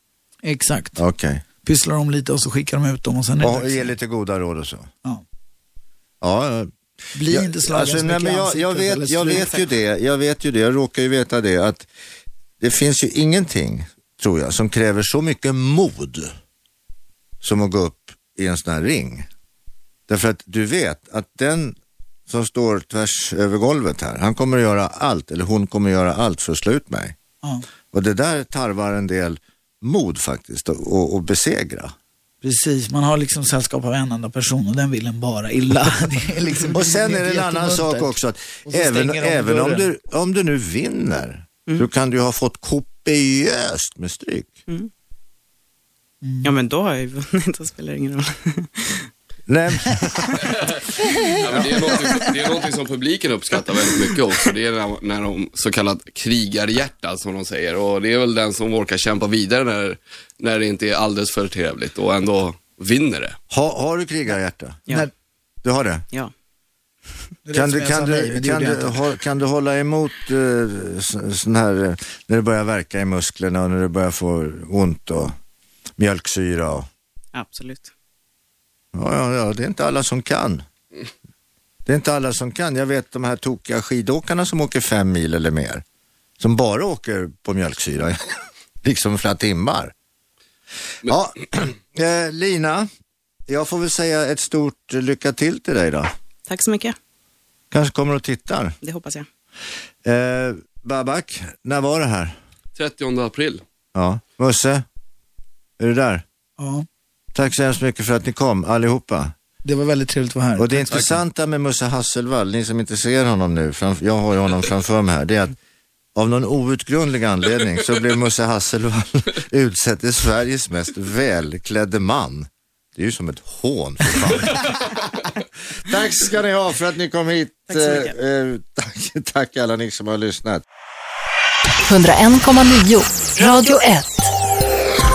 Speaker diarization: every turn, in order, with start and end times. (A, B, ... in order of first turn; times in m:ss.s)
0:00.4-0:01.0 A
0:01.0-0:01.4 B
0:01.6-0:03.9 A
0:03.4-0:04.9 B
0:06.2-0:06.7 B
0:07.1-0:09.6 A
0:07.3-0:11.9 B
0:12.6-0:16.3 B
0:17.4-0:19.3 B
0:20.1-0:21.8 B
0:22.3-0:27.2 B
0:27.9-0:31.9 B
0:32.4-0:38.1 A
0:36.7-0:44.6 B
0:38.6-0:39.9 A
0:46.2-0:46.5 A
0:46.4-0:49.1 C
0:49.5-0:50.5 B
0:51.4-1:03.4 D
0:51.4-0:51.7 B
1:03.5-1:04.8 B
1:05.6-1:06.0 B
1:07.4-1:09.0 A
1:07.5-1:15.3 B
1:16.0-1:16.9 B
1:17.3-1:17.9 C
1:18.9-1:20.6 B
1:21.8-1:25.8 B
1:26.4-1:29.9 B
1:31.0-1:32.9 B
1:33.5-1:36.1 B
1:36.5-1:37.0 C
1:37.7-1:38.8 B
1:38.8-1:39.3 C
1:40.0-1:42.4 B
1:42.8-1:43.6 D
1:43.9-1:44.8 B
1:45.8-1:46.2 B
1:46.6-1:46.8 A
1:47.3-1:49.3 B
1:49.6-1:51.2 A
1:50.6-1:55.6 B
1:56.1-2:04.8 B
2:05.8-2:10.6 B
2:07.7-2:08.1 C
2:11.8-2:14.3 E